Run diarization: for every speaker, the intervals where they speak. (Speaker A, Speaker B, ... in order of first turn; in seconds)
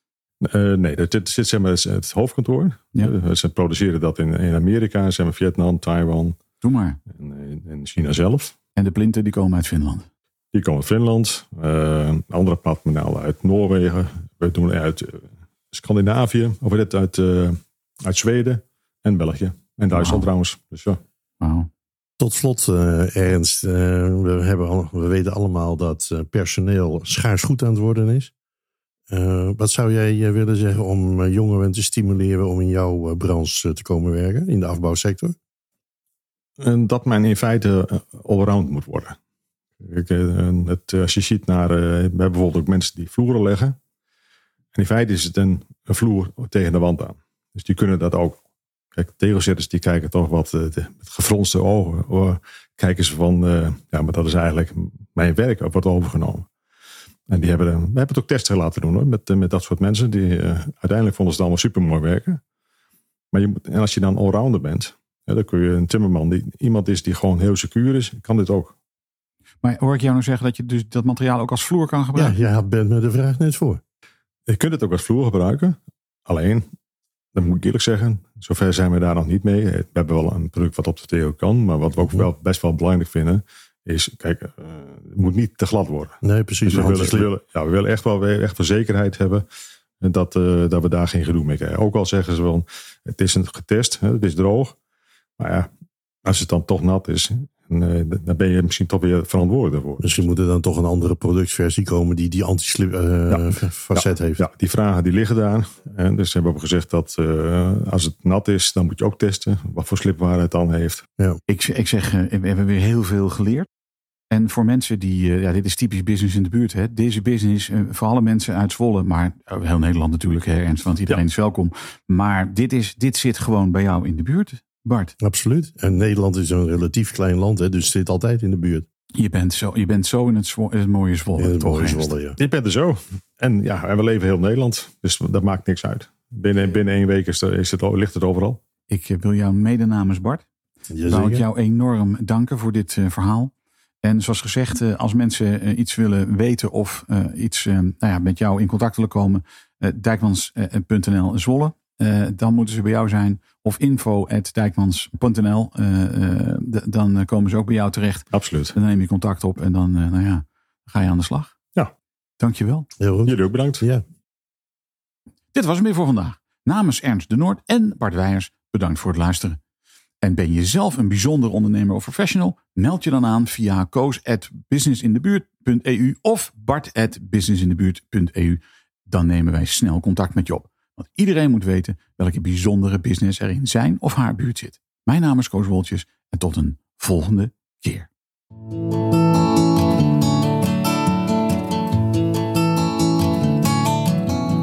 Speaker A: 0.4-6.4, 7.1-8.6, 10.5-21.0, 36.6-39.2, 39.8-43.8, 44.8-48.4, 48.9-56.5, 57.3-62.4, 63.3-68.8, 74.5-76.7, 77.3-89.5, 90.0-94.8, 95.4-95.7, 96.2-100.2, 103.3-111.1, 132.4-138.6, 158.3-158.8, 163.3-163.8
Speaker B: 6.6-7.0, 8.8-10.1, 19.9-20.3, 21.4-21.7, 69.6-72.4, 111.5-113.7, 114.3-125.1, 129.2-132.2, 138.9-140.4, 141.1-143.5, 144.0-161.6, 162.4-162.9, 165.5-169.6, 170.2-188.1
Speaker C: 22.2-28.3, 29.1-35.4, 72.2-73.8, 86.2-87.3, 100.0-104.4, 125.2-128.9, 131.4-132.4, 140.9-141.4, 163.0-164.0